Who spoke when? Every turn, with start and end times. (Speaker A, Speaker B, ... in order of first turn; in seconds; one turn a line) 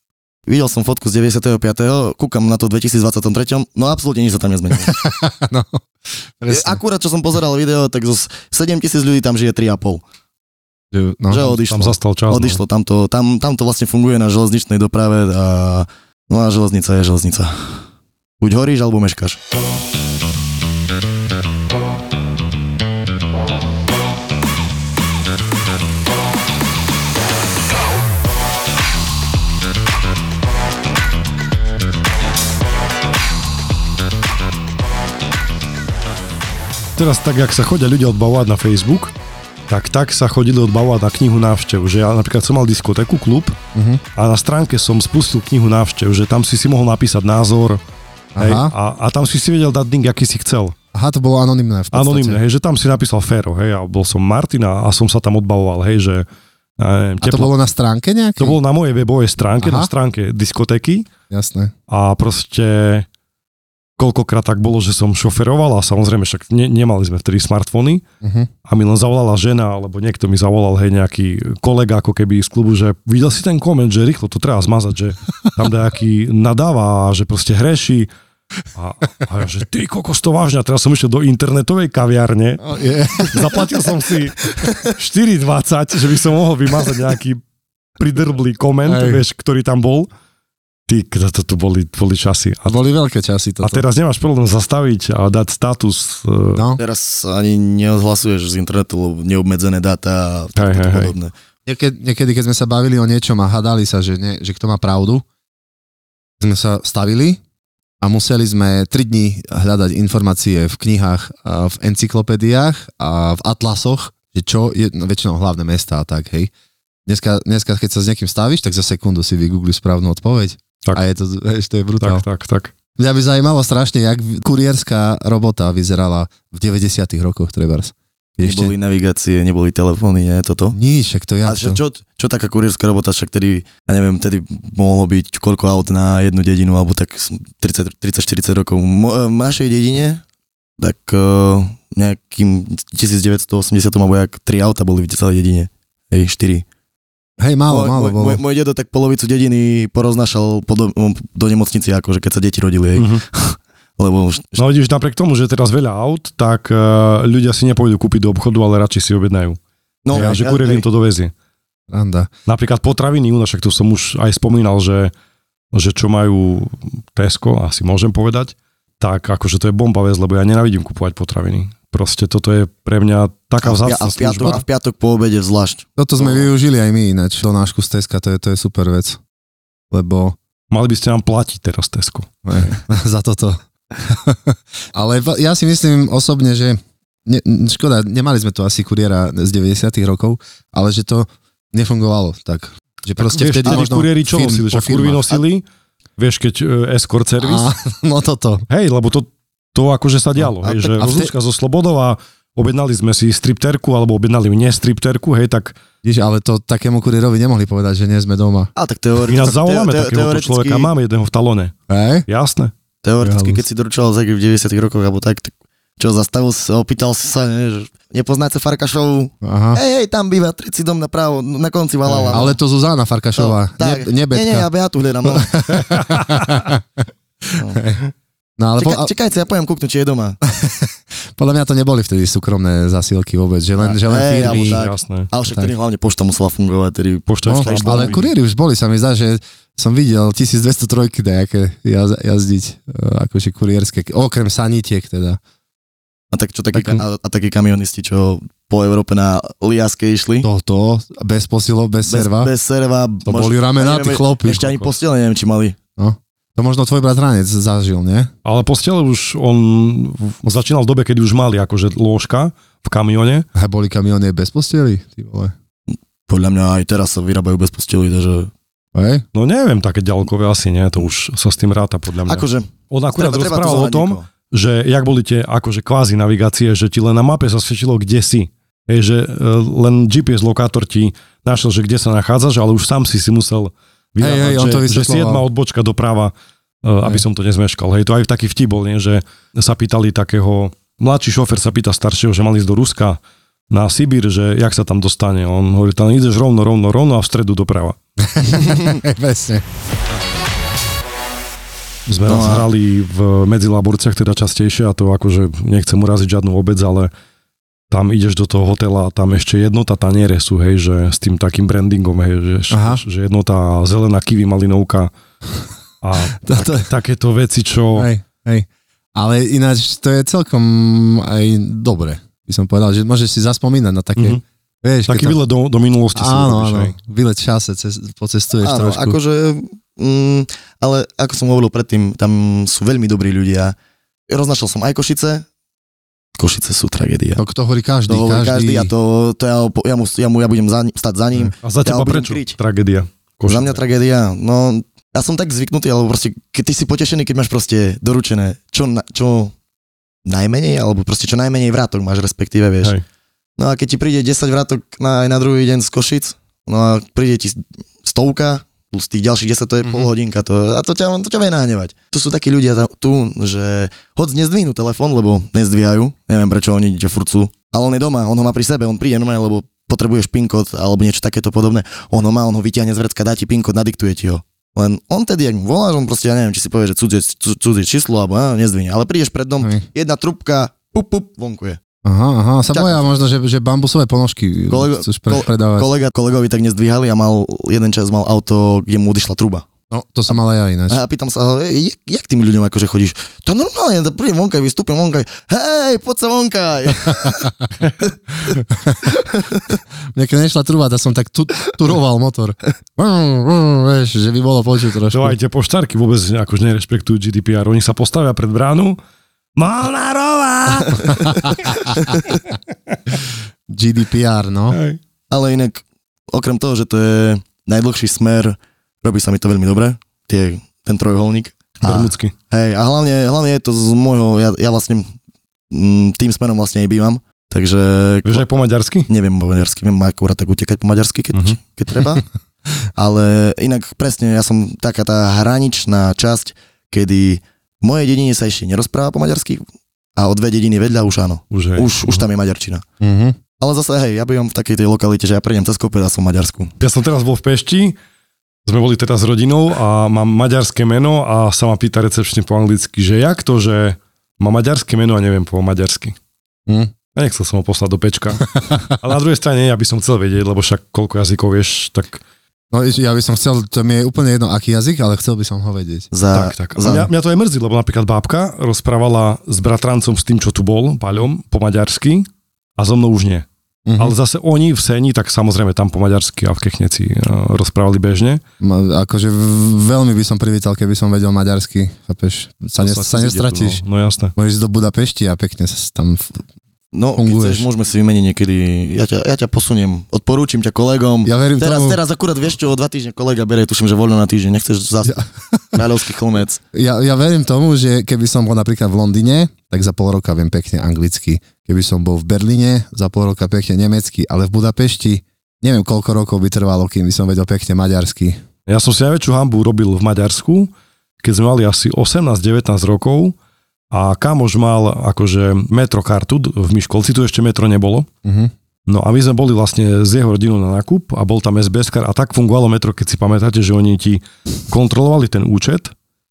Speaker A: 0.5-4.9
Speaker B: 4.8-6.8
Speaker A: 6.5-10.0
Speaker B: 10.9-11.6
Speaker A: 11.3-17.8
Speaker C: 11.7-12.6
Speaker A: 18.4-19.4
Speaker C: 37.0-39.1
Speaker C: 39.7-43.6
Speaker B: 43.7-44.0
Speaker C: 44.2-47.8
Speaker B: 48.4-48.7
Speaker C: 48.4-50.8
Speaker B: 50.9-52.4
Speaker C: 51.9-56.3
Speaker C: 56.8-57.5
Speaker B: 57.2-58.6
Speaker C: 58.4-61.1
Speaker B: 59.6-59.9
Speaker B: 61.3-61.7
Speaker C: 61.9-63.1
Speaker C: 64.0-68.0
Speaker B: 68.2-68.5
Speaker C: 68.7-78.1
Speaker C: 78.8-82.6
Speaker B: 82.6-83.9
Speaker C: 83.3-87.4
Speaker C: 88.0-90.1
Speaker B: 88.9-89.2
Speaker C: 90.9-92.8
Speaker B: 92.7-93.8
Speaker C: 93.6-96.6
Speaker B: 96.6-96.8
Speaker A: 96.8-101.3
Speaker C: 100.6-101.1
Speaker B: 101.7-105.2
Speaker B: 106.4-107.4
Speaker B: 108.0-116.5
Speaker B: 117.1-122.2
Speaker C: 122.0-122.7
Speaker B: 123.0-128.8
Speaker A: 128.4-130.8
Speaker B: 130.7-131.8
Speaker A: 131.4-140.2
Speaker A: 140.8-146.7
Speaker B: 147.4-148.4
Speaker A: 147.7-154.6
Speaker C: 152.9-153.2
Speaker C: 154.6-159.6
Speaker A: 160.0-160.9
Speaker B: 160.1-160.4
Speaker C: 160.1-161.3
Speaker B: 161.9-162.3
Speaker C: 162.5-165.1
Speaker C: 165.7-174.6
Speaker A: 173.6-176.5
Speaker B: 176.0-179.2
Speaker B: 179.9-180.3
Speaker C: 180.7-182.3
Speaker B: 182.4-195.4
Speaker C: 193.2-195.7
Speaker A: 193.6-193.9
Speaker C: 196.2-197.7
Speaker B: 197.4-198.7
Speaker C: 198.7-205.8
Speaker A: 200.6-201.3
Speaker B: 206.0-208.7
Speaker A: 208.8-210.9
Speaker C: 209.3-211.7
Speaker B: 211.9-212.3
Speaker C: 212.3-212.7
Speaker A: 213.0-222.6
Speaker B: 213.2-213.6
Speaker B: 219.4-219.8
Speaker C: 222.1-222.5
Speaker B: 222.3-224.7
Speaker A: 223.4-225.5
Speaker B: 225.2-226.8
Speaker C: 225.8-226.7
Speaker B: 227.5-228.1
Speaker B: 228.6-229.1
Speaker A: 228.8-230.4
Speaker B: 230.5-234.8
Speaker A: 233.8-238.2
Speaker C: 234.5-235.3
Speaker B: 235.4-235.7
Speaker C: 237.3-238.3
Speaker B: 237.4-245.4
Speaker A: 246.3-250.5
Speaker C: 246.7-247.0
Speaker B: 250.4-252.5
Speaker A: 252.0-255.8
Speaker B: 253.3-254.6
Speaker C: 254.6-254.9
Speaker B: 256.0-258.3
Speaker C: 258.4-263.5
Speaker B: 263.6-265.5
Speaker A: 266.3-268.5
Speaker B: 268.9-269.2
Speaker C: 269.3-286.3
Speaker A: 272.3-274.3
Speaker B: 284.2-285.5
Speaker C: 286.8-298.0
Speaker B: 298.2-299.6
Speaker C: 302.1-307.1
Speaker A: 302.2-302.7
Speaker C: 307.9-315.1
Speaker B: 312.7-313.0
Speaker C: 316.0-318.1
Speaker B: 316.4-316.9
Speaker B: 318.0-325.4
Speaker C: 325.1-327.0
Speaker B: 326.1-329.2
Speaker A: 328.6-333.8
Speaker A: 334.3-335.5
Speaker A: 336.4-337.4
Speaker B: 337.4-338.9
Speaker A: 338.1-342.6
Speaker C: 341.6-343.8
Speaker A: 343.5-349.5
Speaker A: 350.2-352.9
Speaker A: 353.6-381.8
Speaker B: 359.9-360.1
Speaker B: 382.0-385.9
Speaker A: 382.7-383.0
Speaker A: 384.7-389.7
Speaker B: 389.9-391.0
Speaker A: 390.9-397.5
Speaker B: 398.5-399.2
Speaker A: 399.2-399.8
Speaker B: 400.1-405.4
Speaker C: 405.1-409.0
Speaker C: 409.6-413.2
Speaker B: 413.7-414.8
Speaker C: 414.7-415.0
Speaker A: 415.3-425.1
Speaker C: 421.8-422.3
Speaker A: 425.7-428.5
Speaker C: 428.2-429.1
Speaker A: 429.1-432.2
Speaker C: 431.3-431.6
Speaker A: 432.9-439.6
Speaker A: 440.1-442.8
Speaker C: 441.5-442.3
Speaker B: 443.0-443.4
Speaker A: 443.6-446.7
Speaker C: 446.8-448.0
Speaker C: 448.6-456.2
Speaker C: 457.1-462.2
Speaker B: 462.7-466.1
Speaker A: 466.1-467.1
Speaker C: 466.3-473.5
Speaker B: 473.9-474.1
Speaker C: 474.0-478.4
Speaker B: 478.6-483.8
Speaker C: 482.8-484.3
Speaker B: 484.4-486.4
Speaker A: 486.9-495.2
Speaker B: 487.1-487.7
Speaker B: 491.2-492.0
Speaker B: 495.1-495.9
Speaker A: 495.7-496.6
Speaker B: 496.7-508.4
Speaker C: 508.7-513.4
Speaker C: 513.9-518.1
Speaker B: 518.2-518.5
Speaker C: 518.9-525.9